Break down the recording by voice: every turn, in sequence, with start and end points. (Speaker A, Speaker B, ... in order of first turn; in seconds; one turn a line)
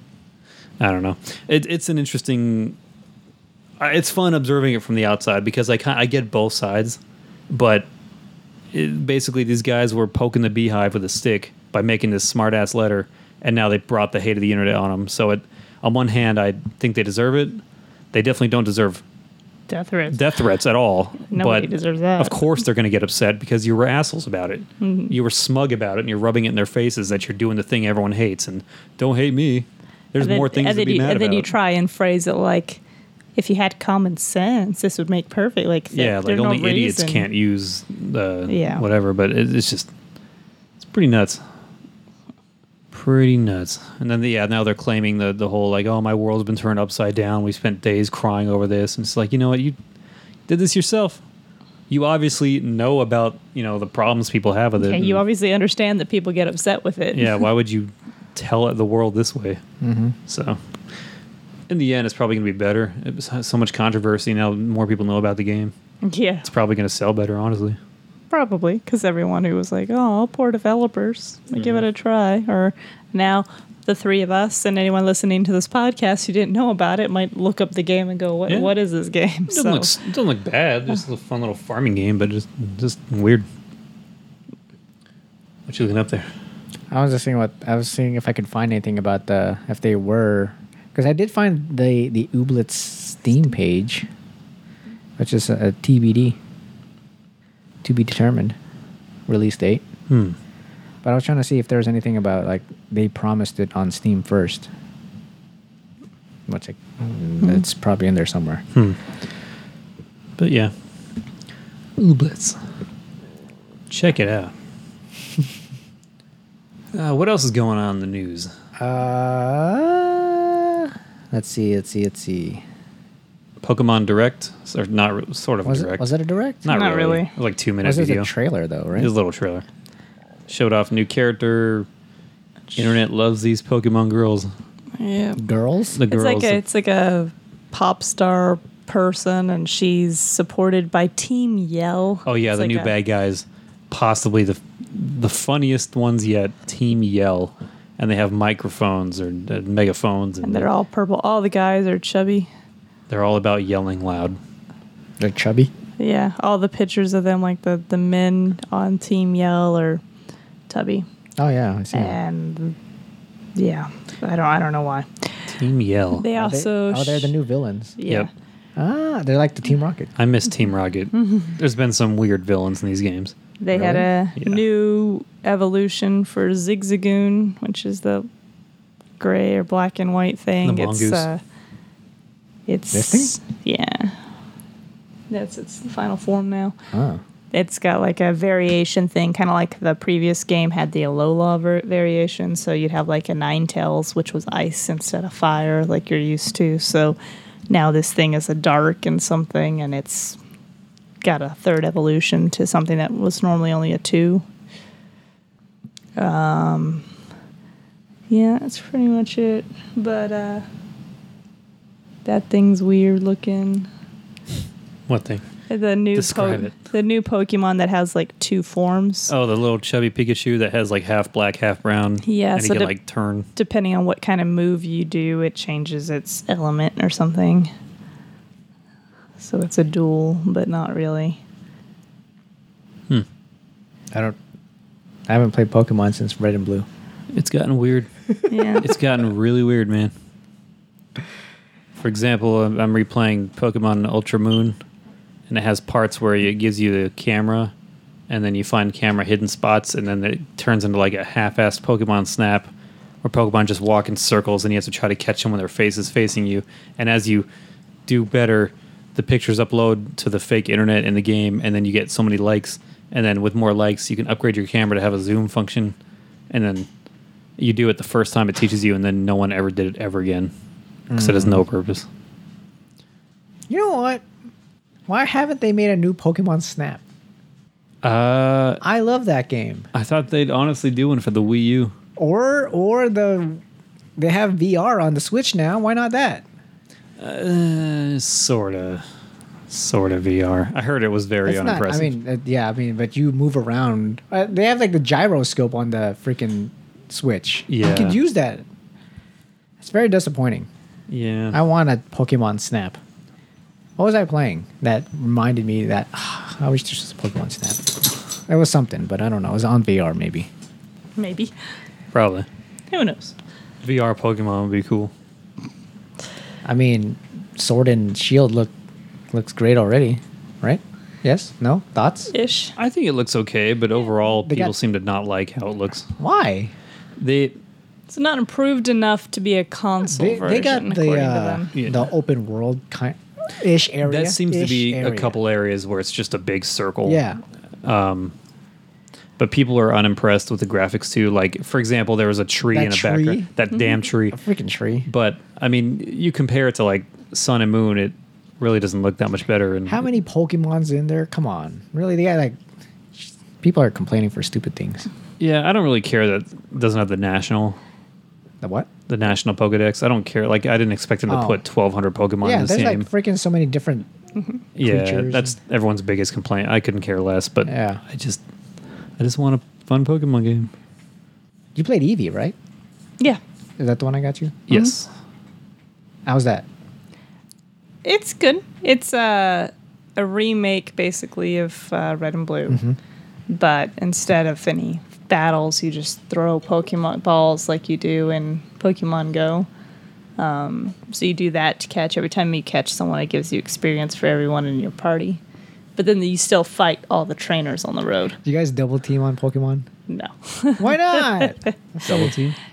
Speaker A: 0.8-2.8
Speaker A: 3.8-7.0
Speaker A: 7.5-7.8
Speaker A: 8.7-17.6
Speaker A: 18.1-19.0
Speaker B: 19.7-20.2
Speaker A: 20.1-31.5
Speaker B: 21.3-22.4
Speaker B: 24.8-25.1
Speaker B: 30.2-32.8
Speaker B: 33.4-37.3
Speaker A: 35.9-39.9
Speaker B: 38.5-38.8
Speaker A: 40.8-41.4
Speaker A: 42.9-49.8
Speaker A: 50.5-51.2
Speaker A: 51.9-55.2
Speaker B: 54.8-57.4
Speaker A: 57.1-59.6
Speaker C: 59.8-60.1
Speaker A: 60.3-60.6
Speaker A: 61.7-65.7
Speaker B: 66.0-66.5
Speaker A: 66.4-67.8
Speaker B: 68.3-79.9
Speaker A: 71.5-71.8
Speaker A: 79.5-83.4
Speaker A: 85.7-86.3
Speaker C: 86.9-94.1
Speaker C: 95.2-96.4
Speaker C: 97.8-98.5
Speaker C: 99.3-99.8
Speaker A: 100.1-100.4
Speaker C: 101.0-104.7
Speaker C: 106.5-108.6
Speaker A: 110.4-110.7
Speaker A: 112.0-112.6
Speaker A: 113.9-114.5
Speaker A: 116.9-118.5
Speaker C: 118.8-122.6
Speaker A: 123.6-126.0
Speaker C: 125.6-126.6
Speaker A: 126.6-128.3
Speaker B: 126.7-127.3
Speaker C: 127.8-129.1
Speaker A: 128.9-129.6
Speaker A: 130.5-131.9
Speaker A: 132.7-134.5
Speaker B: 135.0-135.4
Speaker C: 135.4-136.0
Speaker A: 135.9-136.6
Speaker B: 136.1-142.9
Speaker A: 142.2-150.7
Speaker B: 150.4-152.5
Speaker A: 153.1-154.4
Speaker C: 155.2-155.7
Speaker B: 156.0-160.0
Speaker B: 160.7-161.1
Speaker C: 161.4-162.2
Speaker B: 161.9-162.8
Speaker B: 163.6-165.3
Speaker A: 165.5-166.2
Speaker B: 166.1-167.3
Speaker C: 166.3-168.0
Speaker B: 168.0-168.3
Speaker C: 168.8-170.1
Speaker A: 170.2-174.6
Speaker B: 171.1-171.5
Speaker B: 173.6-178.3
Speaker B: 179.2-181.4
Speaker A: 180.6-181.3
Speaker B: 182.7-184.2
Speaker C: 182.9-183.3
Speaker B: 185.3-186.7
Speaker C: 186.9-187.2
Speaker B: 187.5-197.2
Speaker B: 197.7-200.4
Speaker B: 201.2-204.4
Speaker B: 206.2-207.1
Speaker B: 208.3-210.6
Speaker B: 212.2-213.9
Speaker A: 215.1-215.4
Speaker B: 215.7-219.3
Speaker A: 216.1-216.7
Speaker A: 219.3-223.5
Speaker B: 222.2-222.9
Speaker B: 223.5-227.7
Speaker B: 229.4-231.4
Speaker C: 235.3-236.8
Speaker A: 237.3-238.1
Speaker B: 238.5-238.8
Speaker A: 238.8-240.1
Speaker A: 242.0-244.8
Speaker A: 245.5-247.7
Speaker A: 248.3-252.7
Speaker A: 253.2-257.4
Speaker A: 258.1-265.9
Speaker A: 266.5-266.9
Speaker A: 267.6-270.5
Speaker C: 271.1-271.6
Speaker A: 271.1-272.1
Speaker C: 273.7-274.2
Speaker C: 275.1-277.0
Speaker A: 278.0-278.8
Speaker C: 278.8-279.9
Speaker A: 279.9-281.9
Speaker C: 282.2-283.6
Speaker C: 284.2-286.4
Speaker A: 287.2-289.0
Speaker A: 289.7-292.1
Speaker C: 291.4-298.6
Speaker A: 297.7-298.2
Speaker C: 299.8-300.7
Speaker A: 301.1-301.6
Speaker C: 301.5-303.0
Speaker C: 304.0-310.5
Speaker B: 311.2-311.5
Speaker A: 312.1-312.5
Speaker B: 312.9-313.3
Speaker A: 313.8-315.1
Speaker C: 316.6-318.7
Speaker C: 319.3-322.3
Speaker B: 322.3-322.7
Speaker A: 322.8-326.1
Speaker C: 324.4-324.7
Speaker C: 326.2-326.7
Speaker A: 327.2-327.6
Speaker B: 328.1-331.7
Speaker C: 330.1-335.3
Speaker A: 331.8-332.1
Speaker A: 334.0-337.2
Speaker C: 337.1-337.4
Speaker A: 337.8-338.3
Speaker A: 339.4-344.4
Speaker C: 342.7-343.5
Speaker C: 344.3-345.1
Speaker A: 345.1-350.1
Speaker C: 349.9-352.6
Speaker C: 353.1-355.1
Speaker A: 355.4-357.8
Speaker C: 358.6-358.9
Speaker A: 359.1-363.1
Speaker C: 361.3-361.6
Speaker C: 362.4-364.1
Speaker A: 364.8-368.4
Speaker C: 364.8-365.5
Speaker C: 367.7-368.0
Speaker A: 369.2-370.7
Speaker C: 371.7-372.5
Speaker C: 373.8-374.6
Speaker A: 374.7-375.1
Speaker C: 376.2-376.6
Speaker B: 378.0-382.8
Speaker C: 382.7-383.0
Speaker B: 383.5-389.7
Speaker B: 390.4-395.4
Speaker B: 395.9-398.4
Speaker C: 398.4-399.9
Speaker B: 400.1-401.7
Speaker C: 400.8-402.3
Speaker A: 402.0-402.6